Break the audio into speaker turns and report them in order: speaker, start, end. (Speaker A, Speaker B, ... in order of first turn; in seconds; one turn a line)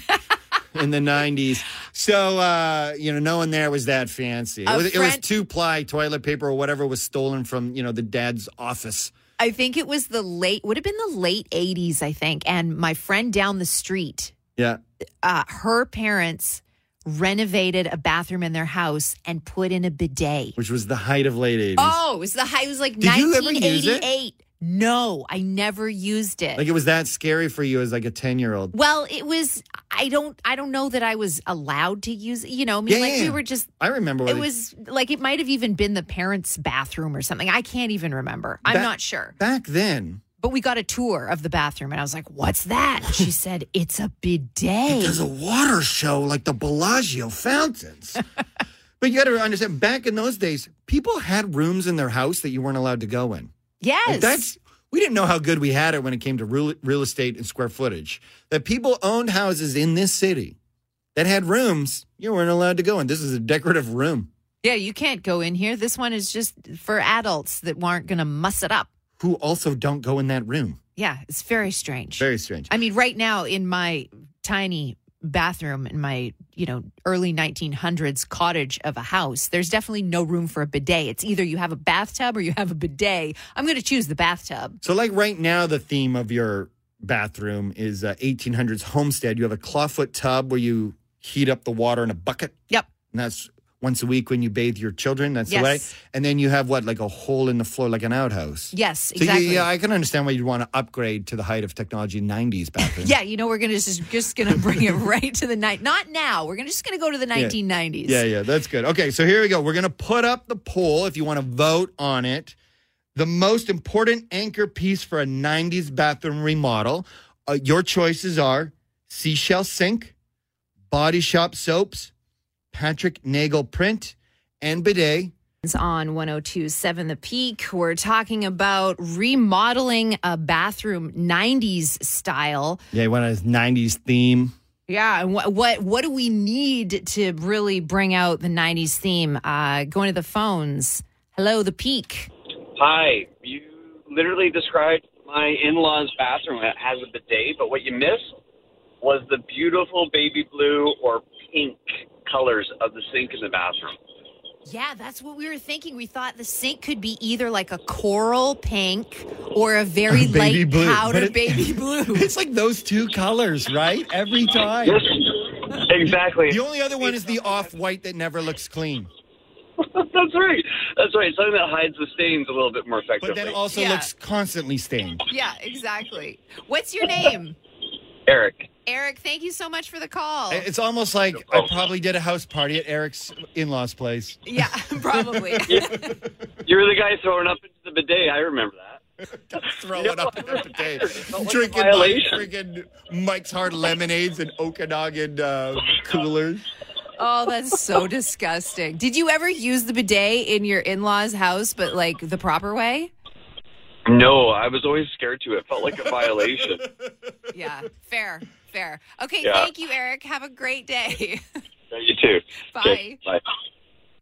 Speaker A: 0.7-9.1
Speaker B: 4.7-5.2
Speaker B: 9.4-14.3
Speaker B: 15.2-20.5
Speaker A: 20.6-22.0
Speaker B: 21.8-26.6
Speaker A: 23.0-24.1
Speaker A: 26.6-28.7
Speaker B: 28.7-33.7
Speaker A: 32.9-34.5
Speaker B: 34.2-39.3
Speaker A: 38.6-40.2
Speaker B: 40.4-45.2
Speaker A: 44.9-48.2
Speaker A: 49.0-53.5
Speaker B: 53.8-54.5
Speaker A: 54.0-60.5
Speaker A: 61.1-64.3
Speaker B: 64.6-68.9
Speaker A: 69.2-70.8
Speaker B: 71.0-84.8
Speaker A: 72.2-72.7
Speaker A: 84.8-92.5
Speaker A: 93.1-103.1
Speaker B: 95.5-95.9
Speaker B: 98.7-99.7
Speaker B: 102.8-108.2
Speaker A: 107.3-112.5
Speaker A: 113.1-120.1
Speaker A: 120.9-122.1
Speaker A: 122.7-125.3
Speaker B: 125.6-132.8
Speaker A: 132.9-134.5
Speaker B: 134.9-142.3
Speaker C: 142.8-148.4
Speaker C: 149.0-154.0
Speaker B: 154.7-162.3
Speaker A: 160.1-165.1
Speaker C: 164.8-167.3
Speaker A: 166.5-169.1
Speaker C: 169.8-173.6
Speaker A: 173.2-175.2
Speaker B: 173.7-174.1
Speaker B: 175.3-177.6
Speaker C: 178.2-178.7
Speaker B: 178.8-180.7
Speaker A: 180.5-184.4
Speaker C: 181.3-181.9
Speaker B: 184.4-186.1
Speaker A: 185.2-185.6
Speaker C: 185.7-185.9
Speaker C: 186.6-189.0
Speaker A: 189.5-196.7
Speaker C: 189.9-192.5
Speaker B: 197.2-203.1
Speaker C: 204.1-206.8
Speaker B: 207.5-211.4
Speaker C: 209.4-209.7
Speaker C: 211.9-213.4
Speaker B: 212.7-213.2